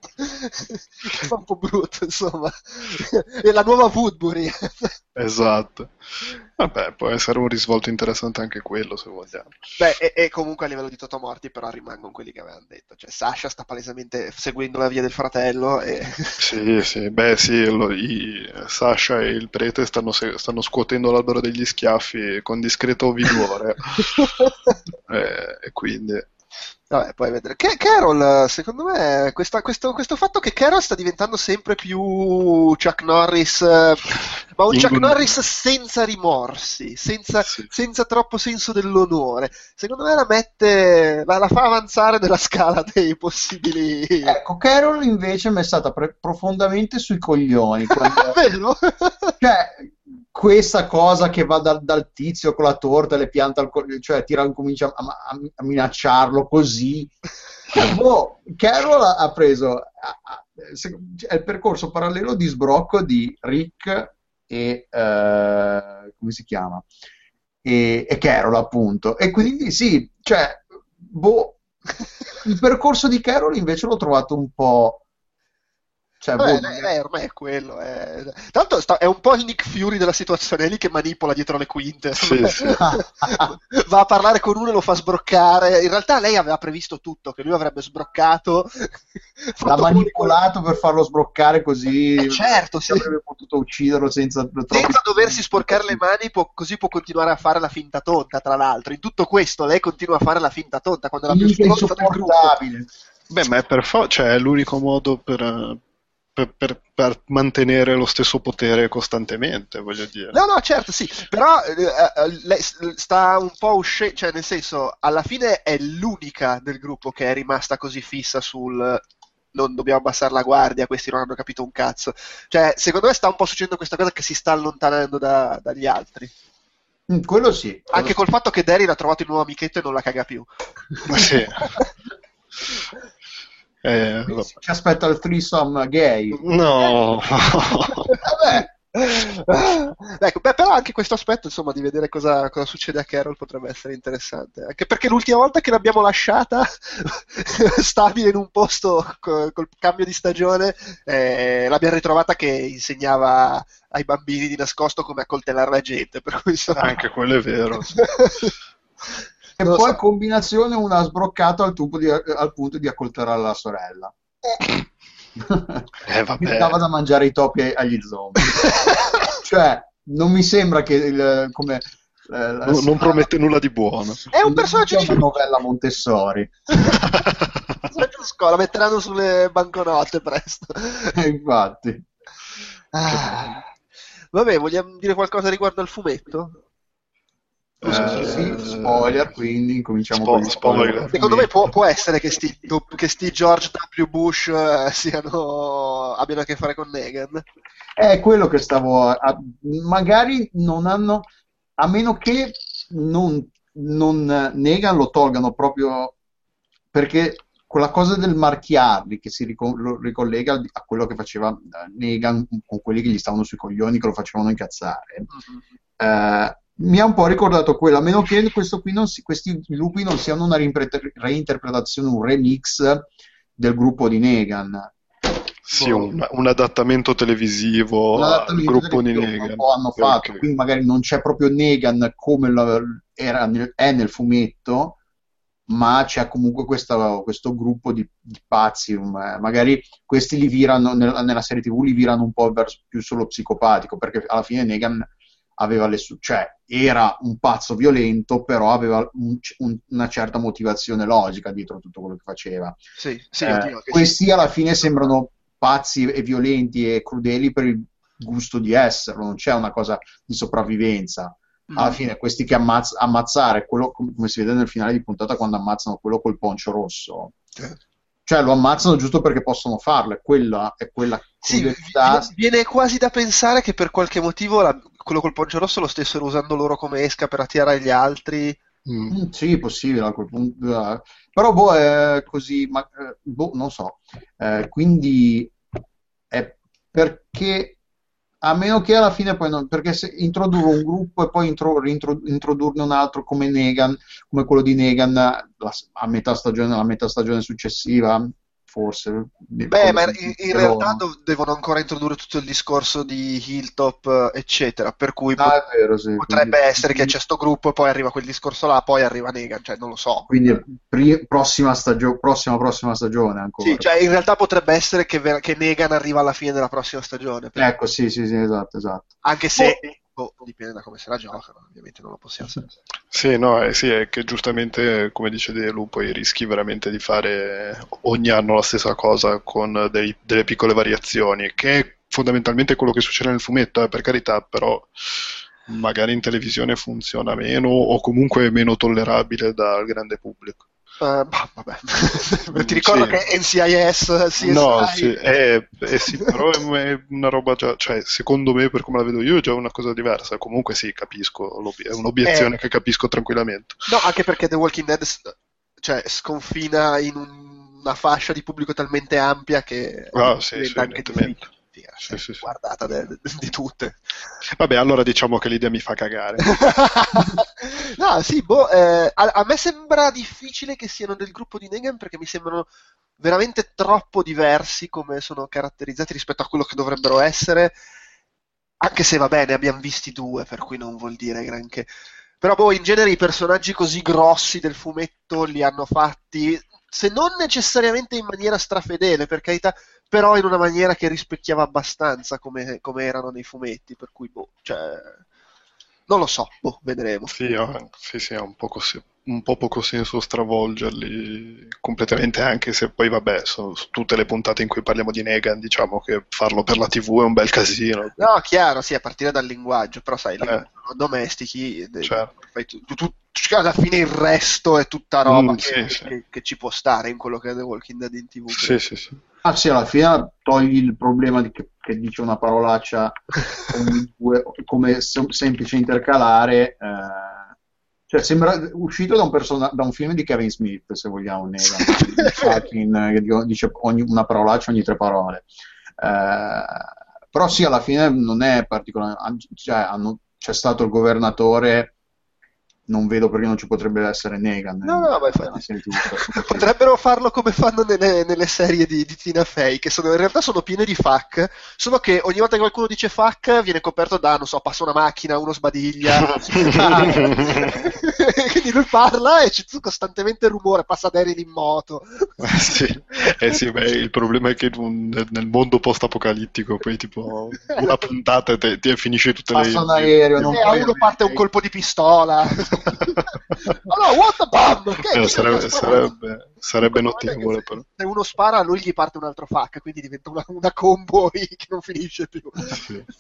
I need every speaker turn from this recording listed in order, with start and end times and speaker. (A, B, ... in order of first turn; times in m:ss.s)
0:00.2-0:05.0 A
0:05.2-0:09.6 B
0:09.8-0:16.4 A
0:16.4-0:24.4 B
0:24.2-0:24.8 A
0:25.1-0:26.3 B
0:26.9-0:44.4 A
0:34.7-0:35.3 B
0:37.4-0:37.7 B
0:44.2-0:48.4 C
0:48.0-0:49.3 A
0:49.4-0:57.2 C
0:57.7-1:06.9 C
1:07.6-1:11.6 C
1:12.4-1:15.0 C
1:16.2-1:16.9 C
1:16.4-1:30.4 A
1:22.2-1:22.8 B
1:22.8-1:23.5 C
1:29.6-1:36.0 C
1:32.2-1:33.1 A
1:34.7-1:42.6 A
1:41.3-1:42.9 C
1:43.3-1:45.8 B
1:46.4-1:50.4 B
1:50.3-2:06.3 A
2:07.1-2:08.2 C
2:07.9-2:11.9 A
2:11.1-2:11.7 B
2:13.8-2:14.5 B
2:14.3-2:16.4 C
2:16.3-2:18.2 B
2:17.9-2:37.0 A
2:18.2-2:18.7 C
2:36.8-2:38.0 B
2:38.0-2:38.5 A
2:39.6-2:44.1 C
2:39.6-2:40.0 A
2:45.4-2:48.7 C
2:46.0-2:46.8 B
2:48.6-2:49.1 A
2:49.3-2:53.3 C
2:52.7-2:54.3 B
2:54.3-2:55.3 A
2:54.4-2:56.6 C
2:57.0-2:57.8 B
2:57.9-3:01.2 A
3:01.2-3:02.1 C
3:02.9-3:03.6 A
3:04.3-3:06.6 A
3:07.8-3:08.6 A
3:07.8-3:09.2 B
3:07.8-3:11.1 C
3:10.1-3:11.5 B
3:11.1-3:17.4 A
3:18.0-3:26.2 C
3:26.9-3:35.3 C
3:35.3-3:35.6 A
3:36.0-3:44.9 C
3:45.7-3:50.4 B
3:45.8-3:46.0 C
3:48.2-3:55.0 C
3:55.7-4:12.8 C
4:13.0-4:14.2 A
4:13.4-4:27.4 C
4:21.7-4:22.0 A
4:28.3-4:32.3 C
4:31.4-4:38.6 A
4:38.9-4:39.2 B
4:39.1-4:45.5 C
4:46.3-4:47.8 C
4:48.4-5:01.0 C
4:59.7-5:05.6 A
5:05.4-5:07.1 C
5:06.2-5:10.3 A
5:10.3-5:13.9 C
5:13.6-5:17.7 A
5:17.6-5:19.8 C
5:19.2-5:22.7 A
5:23.1-5:40.6 B
5:41.0-5:45.2 A
5:42.5-5:43.2 B
5:44.4-5:53.9 B
5:52.2-5:52.6 A
5:53.9-6:04.1 A
6:00.1-6:01.4 B
6:02.1-6:02.5 B
6:04.6-6:06.8 B
6:06.5-6:17.8 A
6:18.8-6:21.9 A
6:22.4-6:35.2 A
6:36.1-6:37.3 A
6:37.3-6:48.3 B
6:48.2-6:58.8 A
6:52.0-6:52.3 B
6:55.3-6:56.1 B
6:58.5-6:59.2 B
6:59.4-7:07.5 C
7:08.1-7:21.9 C
7:11.6-7:12.7 A
7:22.9-7:26.7 C
7:24.8-7:42.5 A
7:36.2-7:37.8 B
7:36.6-7:37.7 C
7:42.4-7:50.7 B
7:47.7-7:48.0 A
7:49.5-7:51.4 C
7:50.4-7:56.1 A
7:55.1-7:57.8 B
7:56.8-8:02.8 A
8:02.7-8:03.1 B